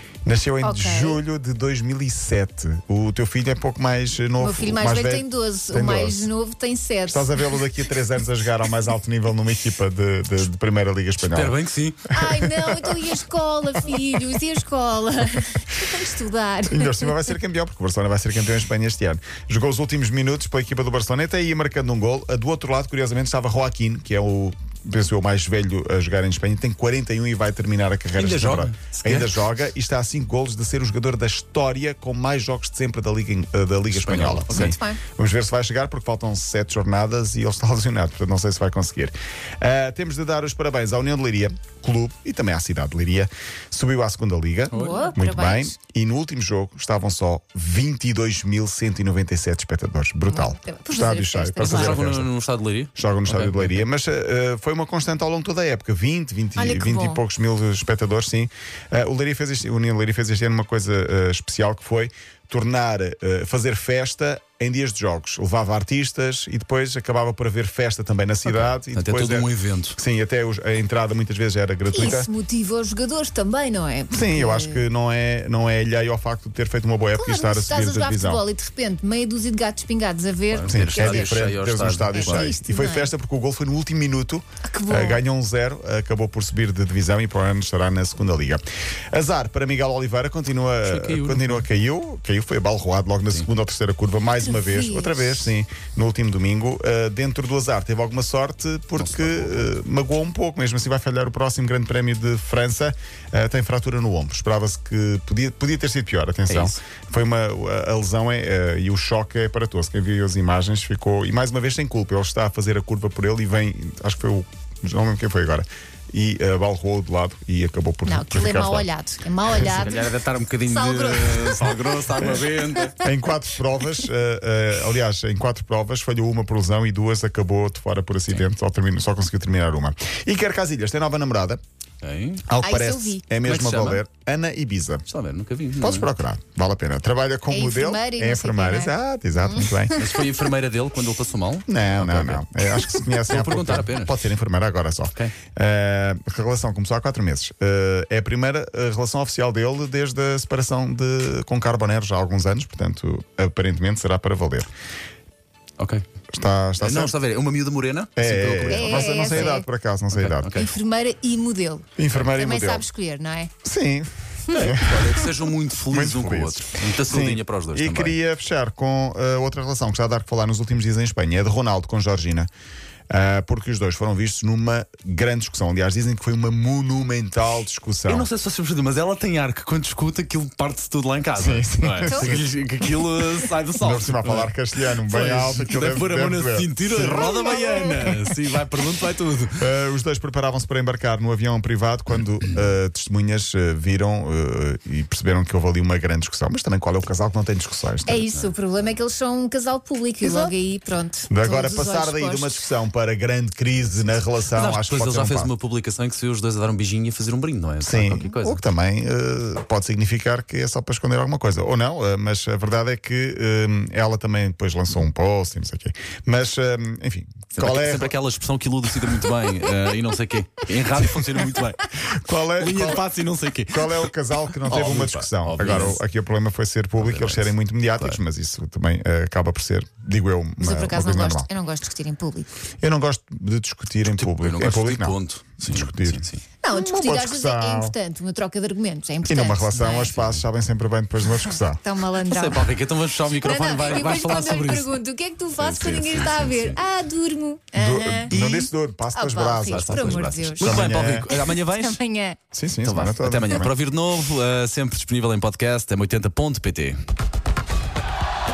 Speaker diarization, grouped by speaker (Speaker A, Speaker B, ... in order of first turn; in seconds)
Speaker A: 0.2-6.3, 7.1-11.6, 12.1-13.1, 16.7-52.3, 53.0-72.3, 74.1-78.4, 80.7-118.9, 123.0-131.6, 132.5-135.1, 135.8-140.0, 141.7-154.7, 156.3-157.2, 158.2-160.7, 162.0-162.8, 163.6-165.3, 165.9-172.5, 173.1-178.3, 181.4-182.5, 183.8-188.2, 189.6-198.2, 201.3-205.5, 207.8-218.1, 222.0-223.1, 223.7-231.5, 232.8-237.9, 239.2-241.8, 247.8-251.3, 252.5-253.7
Speaker B: 0.6-1.2, 4.4-7.4, 12.1-17.4, 34.5-35.0, 44.7-45.7, 50.3-52.1, 56.6-57.2, 71.9-74.9, 77.2-81.4, 82.1-83.1, 84.7-85.2, 94.4-95.5, 118.1-122.4, 132.6-133.2, 137.5-138.9, 139.5-140.0, 158.7-159.7, 160.5-163.5, 182.0-182.4, 198.1-202.7, 230.6-232.5, 236.6-240.2, 241.8-248.3, 249.1-252.4
Speaker C: 11.2-12.1, 28.1-29.4, 33.9-34.8, 44.7-45.1, 51.6-53.8, 68.5-70.0, 80.5-82.6, 90.8-91.7, 99.0-99.7, 106.5-106.8, 119.5-123.0, 132.0-132.5, 133.4-134.0, 135.1-136.1, 139.9-142.4, 143.3-144.3, 155.8-156.1, 156.8-159.6, 160.1-160.7, 164.5-168.2, 178.1-189.7, 198.3-198.5, 204.5-208.6, 217.5-221.9, 222.6-224.1, 224.7-226.0, 227.0-228.2, 234.1-236.4, 240.2-240.4, 242.2-245.0, 245.6-246.8, 248.3-248.7, 249.7-252.0, 252.8-257.0